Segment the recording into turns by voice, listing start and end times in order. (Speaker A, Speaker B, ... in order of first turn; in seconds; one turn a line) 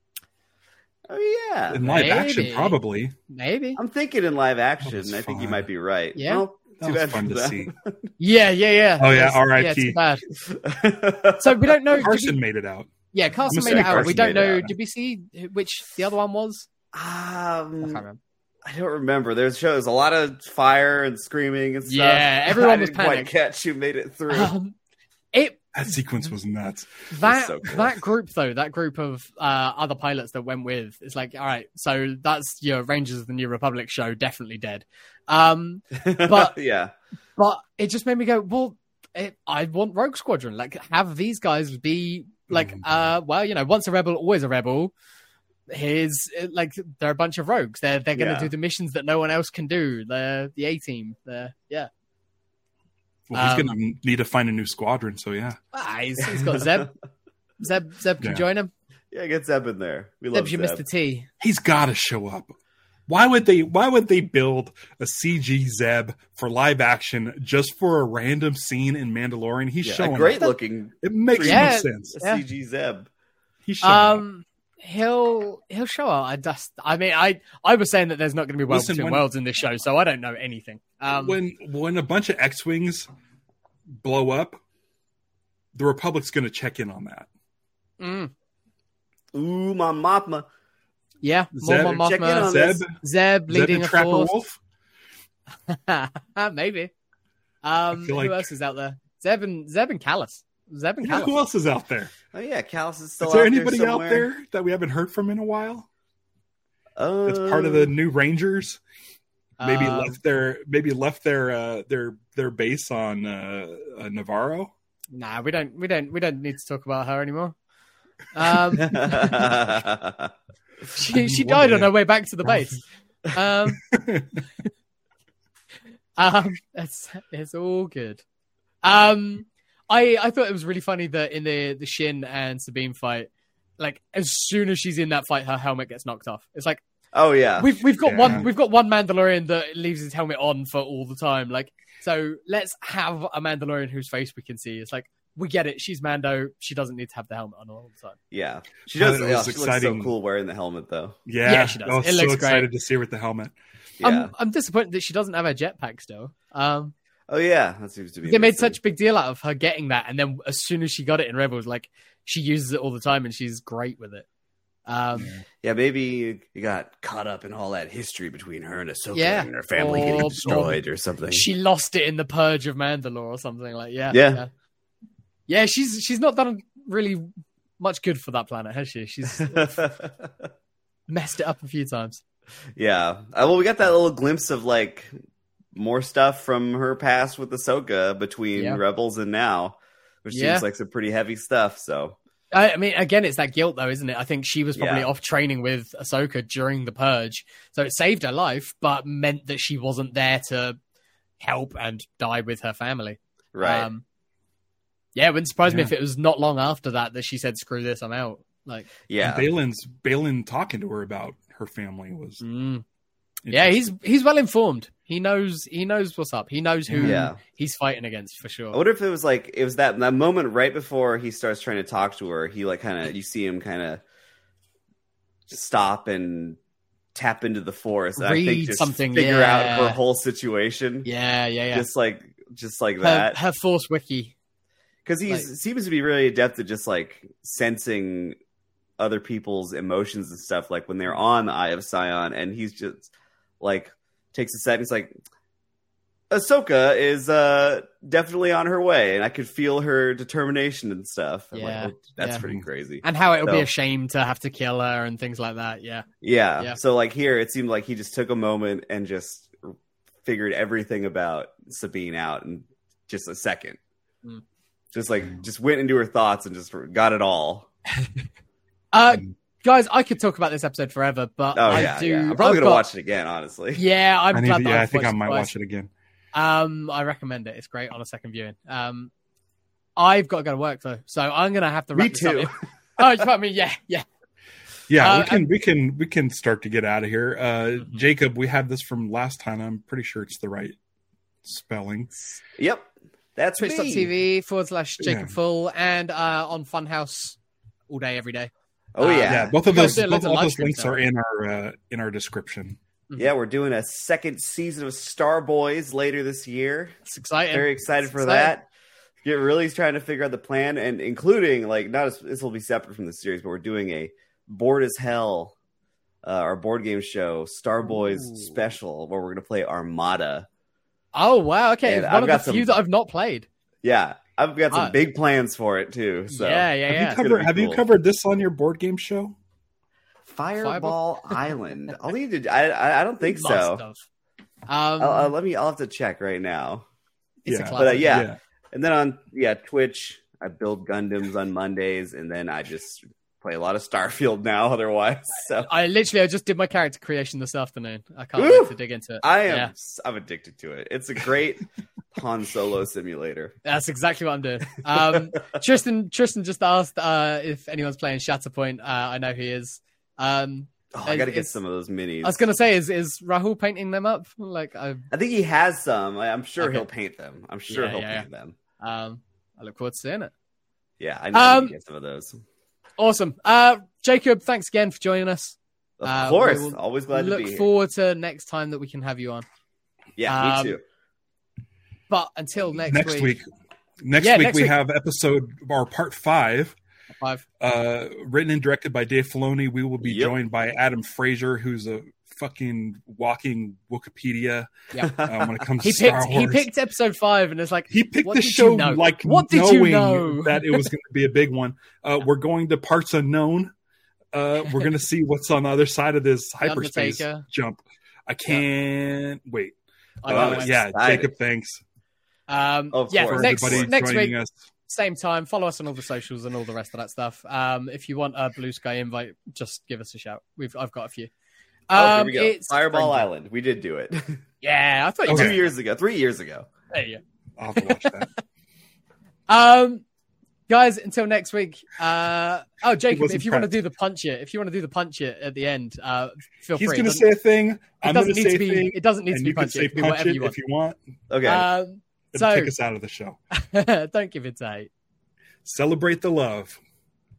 Speaker A: 1.1-2.1
Speaker B: 1.7-3.1
Speaker C: 1.9-3.8
Speaker A: 3.8-8.1
Speaker B: 4.8-5.7
Speaker C: 6.2-6.4
Speaker B: 6.8-7.7
Speaker C: 8.2-10.2
Speaker B: 9.0-10.0
Speaker A: 10.4-11.7
Speaker C: 11.4-12.4
Speaker B: 11.9-12.9
Speaker C: 13.1-16.7
Speaker B: 13.5-14.7
Speaker A: 13.5-14.7
Speaker A: 16.9-18.0
Speaker C: 17.8-18.2
Speaker A: 18.6-24.5
Speaker C: 21.9-23.3
Speaker C: 24.3-24.7
Speaker C: 25.3-26.0
Speaker B: 25.7-27.1
Speaker C: 27.1-36.5
Speaker A: 27.2-27.9
Speaker A: 35.9-36.9
Speaker C: 37.4-44.9
Speaker B: 42.5-42.9
Speaker C: 45.7-51.9
Speaker A: 48.1-48.5
Speaker B: 53.3-55.6
Speaker C: 53.3-53.7
Speaker C: 55.7-56.9
Speaker A: 56.3-56.9
Speaker C: 57.6-58.7
Speaker A: 59.1-60.8
Speaker C: 60.3-61.3
Speaker B: 61.4-62.5
Speaker B: 63.1-72.2
Speaker A: 69.8-73.1
Speaker C: 71.4-72.4
Speaker B: 73.7-74.2
Speaker C: 73.8-81.4
Speaker B: 78.7-79.2
Speaker B: 81.1-83.1
Speaker B: 84.0-84.6
Speaker B: 85.7-87.3
Speaker C: 88.0-88.3
Speaker A: 89.3-90.5
Speaker C: 91.2-94.3
Speaker B: 91.5-94.6
Speaker A: 91.9-92.8
Speaker C: 95.7-96.9
Speaker C: 97.6-101.3
Speaker B: 97.9-98.5
Speaker B: 101.0-102.1
Speaker A: 102.3-104.3
Speaker B: 103.2-105.9
Speaker A: 107.0-107.9
Speaker B: 107.2-108.8
Speaker C: 109.6-110.1
Speaker B: 109.6-114.7
Speaker C: 115.1-117.5
Speaker C: 118.3-119.7
Speaker A: 118.8-120.3
Speaker C: 120.9-123.8
Speaker B: 121.1-121.9
Speaker B: 123.9-124.4
Speaker C: 126.2-128.2
Speaker C: 128.8-136.8
Speaker A: 137.1-138.4
Speaker C: 137.6-148.2
Speaker B: 138.0-138.5
Speaker A: 148.3-151.2
Speaker B: 148.9-150.1
Speaker B: 151.2-153.5
Speaker C: 151.4-152.7
Speaker A: 154.0-154.3
Speaker C: 154.0-156.9
Speaker A: 157.3-158.8
Speaker C: 158.2-164.2
Speaker C: 164.9-165.3
Speaker B: 165.2-165.4
Speaker A: 165.6-171.4
Speaker C: 169.1-174.5
Speaker A: 174.1-174.4
Speaker C: 175.5-179.8
Speaker A: 179.3-180.5
Speaker C: 181.1-182.2
Speaker A: 182.8-185.1
Speaker A: 185.7-192.2
Speaker C: 188.5-188.8
Speaker C: 190.3-190.6
Speaker C: 192.5-200.8
Speaker A: 194.8-195.1
Speaker C: 201.4-204.0
Speaker A: 203.5-203.9
Speaker C: 205.2-208.9
Speaker B: 205.7-205.9
Speaker A: 209.1-209.5
Speaker B: 209.2-212.4
Speaker C: 212.4-212.8
Speaker B: 213.5-213.9
Speaker C: 213.5-218.8
Speaker B: 216.9-217.2
Speaker A: 217.0-217.4
Speaker A: 218.7-224.0
Speaker A: 225.5-226.6
Speaker A: 227.1-231.1
Speaker C: 228.2-230.0
Speaker C: 231.0-231.9
Speaker A: 231.7-233.4
Speaker C: 233.0-234.3
Speaker A: 235.0-238.3
Speaker A: 239.0-245.1
Speaker A: 246.3-253.7
Speaker C: 251.5-252.4
Speaker C: 253.0-256.1
Speaker A: 256.2-263.8
Speaker A: 264.9-267.7
Speaker C: 268.9-272.9
Speaker A: 271.5-273.8
Speaker C: 273.7-275.5
Speaker B: 274.3-275.9
Speaker C: 276.3-279.1
Speaker C: 280.0-284.0
Speaker A: 281.9-283.2
Speaker B: 284.9-290.7
Speaker C: 285.0-285.4
Speaker B: 291.4-292.1
Speaker A: 292.4-294.1
Speaker C: 293.6-297.4
Speaker B: 295.0-295.3
Speaker C: 297.9-301.0
Speaker A: 298.9-299.5
Speaker B: 299.3-302.8
Speaker A: 303.2-306.9
Speaker C: 307.1-308.5
Speaker A: 307.5-308.7
Speaker A: 309.2-315.5
Speaker A: 316.2-320.5
Speaker C: 321.1-323.5
Speaker A: 321.8-322.8
Speaker A: 323.8-327.8
Speaker C: 324.7-324.9
Speaker C: 326.3-327.2
Speaker B: 326.9-329.3
Speaker A: 330.3-333.8
Speaker C: 330.6-331.3
Speaker C: 333.2-334.0
Speaker C: 334.7-335.3
Speaker A: 335.0-336.9
Speaker C: 337.4-338.2
Speaker B: 337.5-338.4
Speaker A: 337.8-345.7
Speaker C: 345.6-349.7
Speaker A: 348.4-353.5
Speaker C: 353.6-361.5
Speaker A: 354.9-355.2
Speaker A: 360.9-362.4
Speaker C: 362.2-365.0
Speaker A: 365.1-368.6
Speaker C: 366.6-366.9
Speaker C: 367.7-368.3
Speaker C: 368.8-370.3
Speaker A: 371.0-372.4
Speaker C: 371.3-371.7
Speaker C: 373.0-379.4
Speaker A: 376.0-377.7
Speaker A: 380.2-380.8
Speaker C: 380.3-380.8
Speaker C: 382.1-383.4
Speaker B: 382.8-383.4
Speaker B: 384.0-386.7
Speaker C: 384.2-384.7
Speaker C: 387.2-387.4
Speaker B: 387.6-396.7
Speaker A: 390.0-390.3
Speaker C: 394.9-395.2
Speaker A: 395.0-395.5
Speaker C: 395.8-400.9
Speaker B: 397.9-403.7
Speaker B: 404.3-409.7
Speaker C: 406.6-407.4
Speaker C: 410.2-410.8
Speaker B: 410.2-411.8
Speaker A: 410.3-411.3
Speaker C: 412.5-414.3
Speaker A: 412.9-413.9
Speaker B: 413.2-414.5
Speaker C: 414.9-421.3
Speaker C: 421.9-423.3
Speaker A: 421.9-424.4
Speaker C: 424.6-425.7
Speaker B: 425.3-425.6
Speaker A: 425.3-426.7
Speaker C: 426.9-427.2
Speaker B: 427.6-428.3
Speaker C: 427.8-428.2
Speaker C: 429.5-430.0
Speaker C: 430.7-437.2
Speaker B: 433.1-433.8
Speaker B: 436.8-441.0
Speaker C: 438.0-440.6
Speaker A: 441.3-441.6
Speaker C: 441.4-442.7
Speaker B: 442.3-443.4
Speaker C: 443.5-444.9
Speaker B: 445.6-446.8